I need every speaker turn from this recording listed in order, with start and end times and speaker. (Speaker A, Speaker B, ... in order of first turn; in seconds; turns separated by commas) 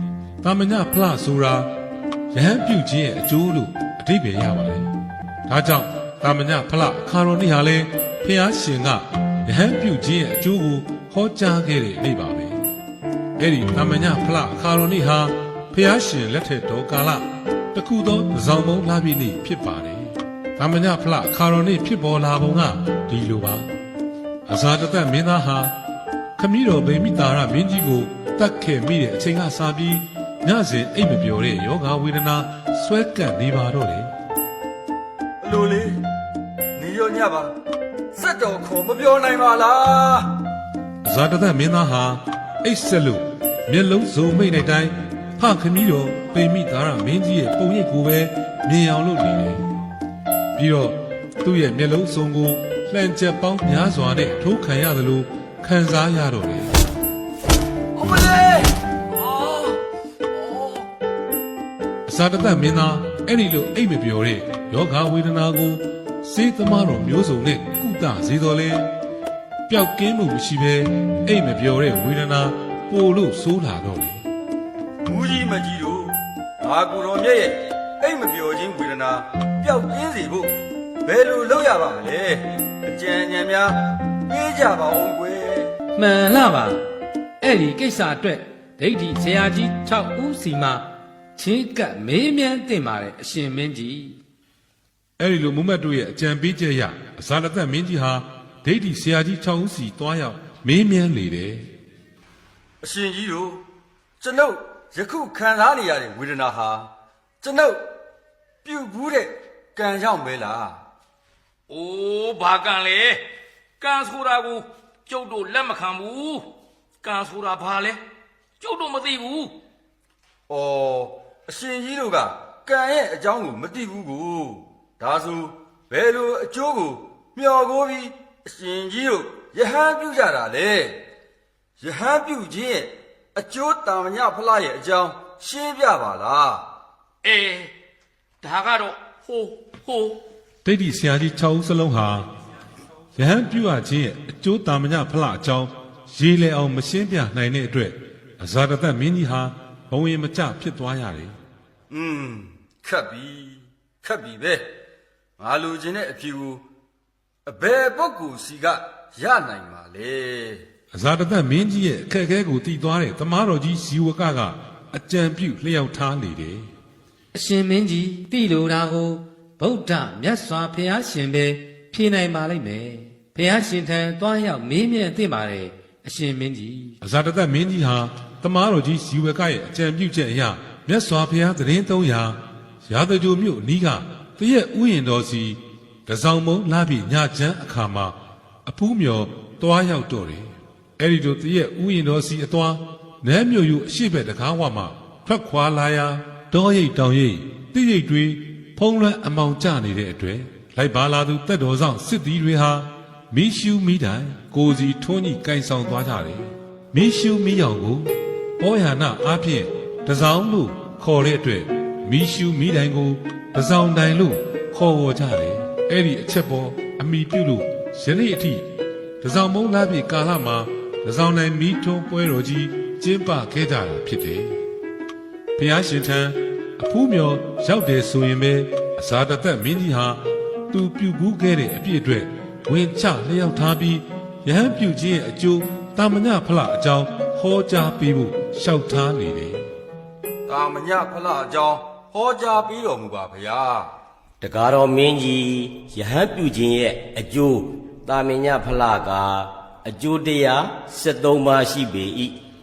Speaker A: 0.4-1.7, Speaker A: 2.3-4.9, Speaker A: 5.5-12.6, Speaker A: 13.4-23.7, Speaker A: 24.5-25.7, Speaker A: 26.4-34.1, Speaker B: 35.4-36.0, Speaker B: 36.8-37.5, Speaker B: 38.1-40.3, Speaker A: 41.0-49.6, Speaker A: 50.5-56.7, Speaker B: 58.0-59.8, Speaker B: 60.3-60.8, Speaker A: 62.1-68.9, Speaker A: 69.7-74.2, Speaker B: 75.0-85.7, Speaker C: 85.9-86.8, Speaker C: 87.4-90.8, Speaker C: 91.4-94.2, Speaker A: 95.2-101.7, Speaker B: 102.8-103.6, Speaker B: 104.2-106.9, Speaker B: 107.4-107.8, Speaker B: 108.6-110.8, Speaker D: 111.7-113.2, Speaker D: 113.8-116.5, Speaker D: 117.0-118.0, Speaker D: 118.6-119.5, Speaker B: 120.5-131.0, Speaker B: 131.8-136.6, Speaker D: 137.2-137.7, Speaker D: 138.4-140.2, Speaker A: 140.6-142.3, Speaker A: 143.2-151.3, Speaker B: 151.9-154.7, Speaker B: 155.4-156.6, Speaker B: 157.4-160.6, Speaker A: 160.9-166.7, Speaker C: 167.3-176.9, Speaker A: 177.0-218.7, Speaker A: 219.2-224.6, Speaker A: 225.6-239.6, Speaker B: 240.5-243.9, Speaker E: 244.4-252.3